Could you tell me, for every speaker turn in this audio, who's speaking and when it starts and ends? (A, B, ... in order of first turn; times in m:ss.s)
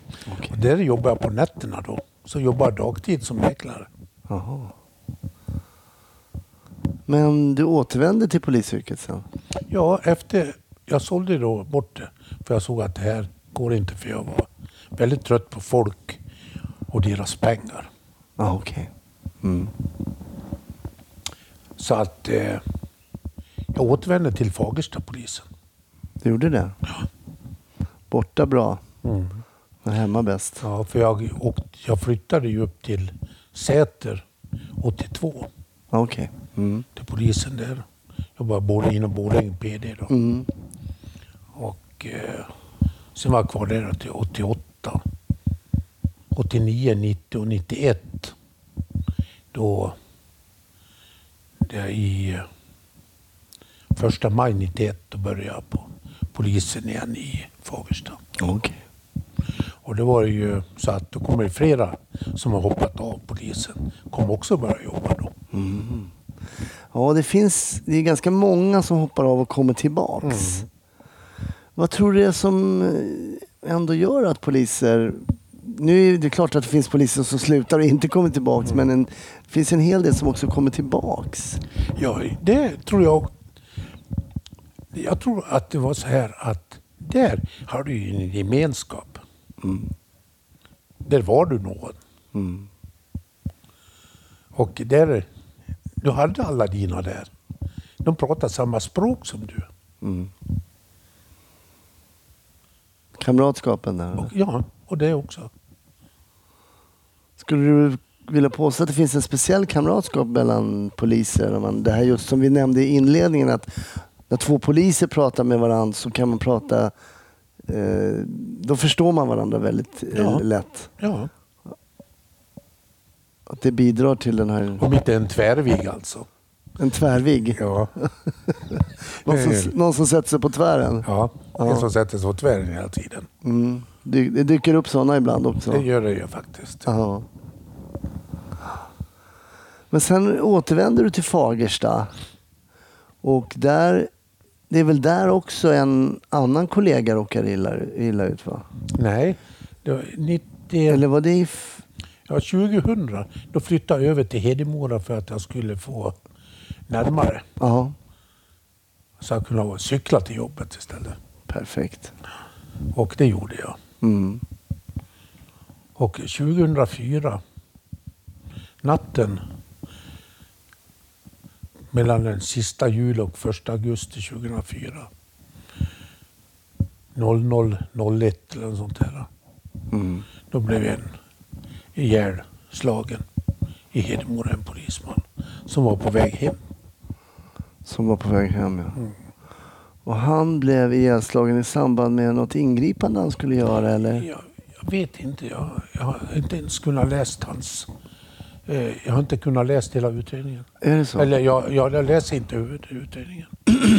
0:00.3-0:00.6 A
0:00.5-0:03.9 B
0:04.3-0:04.7 A
0:07.1-0:09.2 A
0:09.7-0:16.2 B
0:16.9-0:17.9 B
0:18.4-0:18.9 A
0:19.4-0:19.7 A
0:21.8-0:22.6 B
0:23.7-0:25.5 B
0:26.2-0:26.8 A
0:28.1-0:28.8 A
0:29.0-0:29.4 B
0:29.8-0:30.6 A
0:30.6-0:34.2 B
0:34.8-0:35.5 B
0:35.9-0:36.9 A
0:36.9-0:40.1 B
0:40.1-0:40.5 A
0:41.5-0:42.5 B
0:43.1-0:45.0 B
0:46.3-0:48.3 B
0:49.5-0:50.0 B
0:51.6-0:52.5 B
0:53.9-0:58.2 B
0:58.4-0:58.8 A
0:59.8-1:05.3 B
1:05.5-1:06.1 A
1:06.9-1:10.6 A
1:10.2-1:10.7 B
1:11.8-1:21.6 A
1:21.9-1:23.3 B
1:24.9-1:29.2 B
1:29.6-1:29.9 A
1:31.0-1:32.0 B
1:32.3-1:32.7 A
1:34.5-1:35.3 B
1:36.0-1:37.3 B
1:38.0-1:39.7 B
1:40.0-1:40.3 A
1:43.2-1:44.3 A
1:44.2-1:45.5 B
1:47.4-1:56.9 A
1:57.7-2:00.9 A
2:00.1-2:00.4 B
2:01.0-2:01.3 B
2:03.5-2:04.8 A
2:04.8-2:06.3 B
2:06.8-2:11.9 A
2:07.6-2:07.9 B
2:09.2-2:09.7 B
2:11.0-2:13.3 B
2:13.4-2:15.8 A
2:15.7-2:16.9 B
2:16.8-2:17.2 A
2:19.9-2:22.1 A
2:23.2-2:24.1 A
2:24.7-2:28.6 A
2:28.9-2:31.0 B
2:30.9-2:31.8 A
2:32.3-2:36.2 B
2:36.9-2:37.4 B
2:37.6-2:37.9 A
2:39.2-2:41.2 B
2:41.5-2:42.1 A
2:42.9-2:43.8 B
2:44.0-2:44.4 A
2:46.0-2:47.4 B
2:48.8-2:49.4 B
2:51.9-2:55.1 B
2:57.1-2:59.3 B
2:59.9-3:00.2 A
3:00.5-3:01.1 B
3:01.9-3:03.2 B
3:03.9-3:06.6 B
3:07.8-3:09.0 A
3:10.0-3:14.3 A
3:14.2-3:17.9 B
3:18.6-3:23.7 B
3:20.8-3:21.3 A